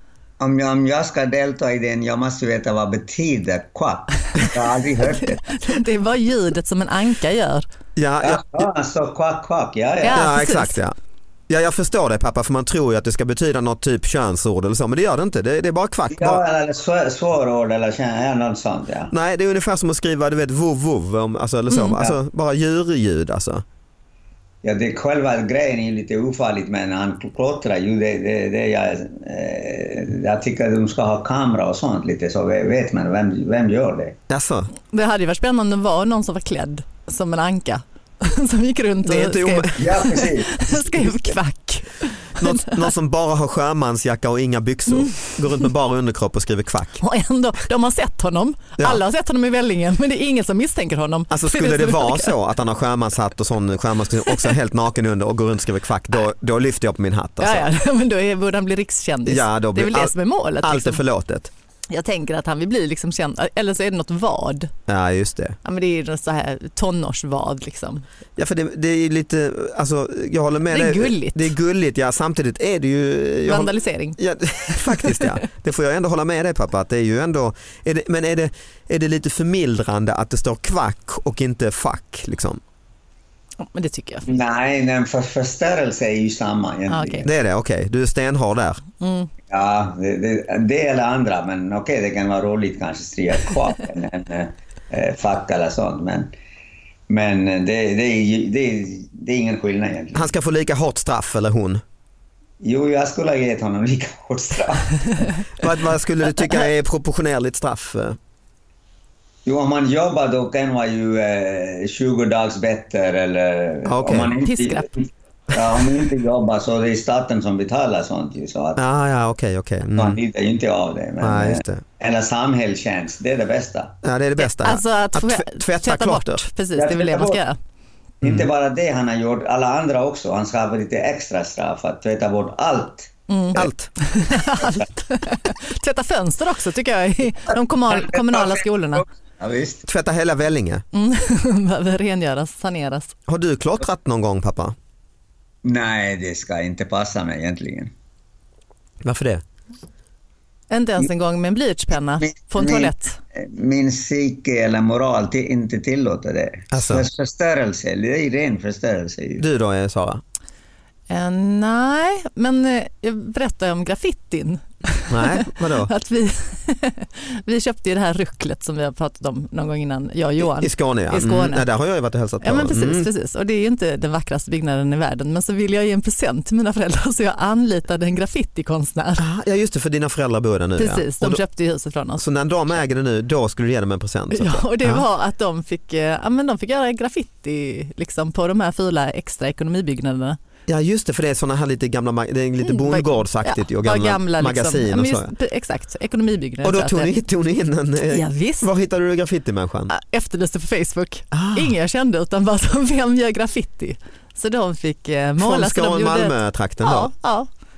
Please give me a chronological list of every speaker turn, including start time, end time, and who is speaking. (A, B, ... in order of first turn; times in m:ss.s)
0:00.4-0:05.5 A
0:05.5-0:07.6 B
0:08.0-0:08.7 C
0:08.2-0:10.3 A
0:10.0-0:10.8 B
0:10.1-0:11.0 C
0:11.5-0:16.4 C
0:16.1-0:19.1 A
0:19.1-0:23.6 C
0:21.7-0:22.0 B
0:24.6-0:34.2 A
0:34.3-0:34.7 C
0:34.9-0:42.9 B
0:39.0-0:40.1 C
0:39.7-0:40.6 A
0:40.7-0:41.4 C
0:42.4-0:47.0 C
0:44.9-0:45.6 B
0:47.0-0:52.3 B
0:51.3-0:57.7 C
0:54.3-0:54.5 B
0:57.4-1:01.0 B
0:59.2-1:01.5 C
1:01.9-1:04.7 B
1:04.9-1:05.6 C
1:05.6-1:08.0 B
1:08.4-1:22.6 C
1:10.7-1:11.5 B
1:13.4-1:14.2 B
1:14.7-1:15.4 B
1:23.6-1:24.2 B
1:24.3-1:27.2 A
1:26.9-1:27.3 B
1:27.2-1:28.8 C
1:29.0-1:29.3 B
1:29.5-1:36.3 A
1:37.1-1:40.3 A
1:40.1-1:41.8 C
1:42.6-1:45.2 A
1:45.6-1:48.2 C
1:49.4-1:54.8 A
1:53.8-1:54.3 C
1:54.4-1:54.9 B
1:55.5-1:58.8 A
1:58.8-2:00.2 C
2:00.0-2:03.9 A
2:01.2-2:01.8 C
2:04.0-2:06.4 C
2:04.4-2:07.6 B
2:06.8-2:07.4 A
2:08.2-2:13.1 A
2:08.2-2:08.5 C
2:13.3-2:19.0 B
2:13.5-2:13.9 C
2:17.9-2:19.8 A
2:19.8-2:20.8 C
2:20.9-2:23.1 B
2:23.3-2:24.8 C
2:25.6-2:27.9 A
2:29.0-2:29.4 C
2:30.7-2:33.2 B
2:32.6-2:39.4 A
2:36.7-2:37.1 C
2:39.4-2:40.2 C
2:41.1-2:51.6 B
2:45.1-2:45.9 C
2:50.4-2:53.1 C
2:52.4-2:59.2 B
2:59.2-3:01.4 C
3:00.8-3:02.2 B
3:02.2-3:05.0 C
3:04.3-3:10.4 B
3:10.7-3:15.3 C
3:12.6-3:17.2 B
3:16.6-3:19.9 C
3:18.1-3:18.7 B
3:19.9-3:27.5 B
3:21.3-3:21.7 C
3:25.4-3:27.1 C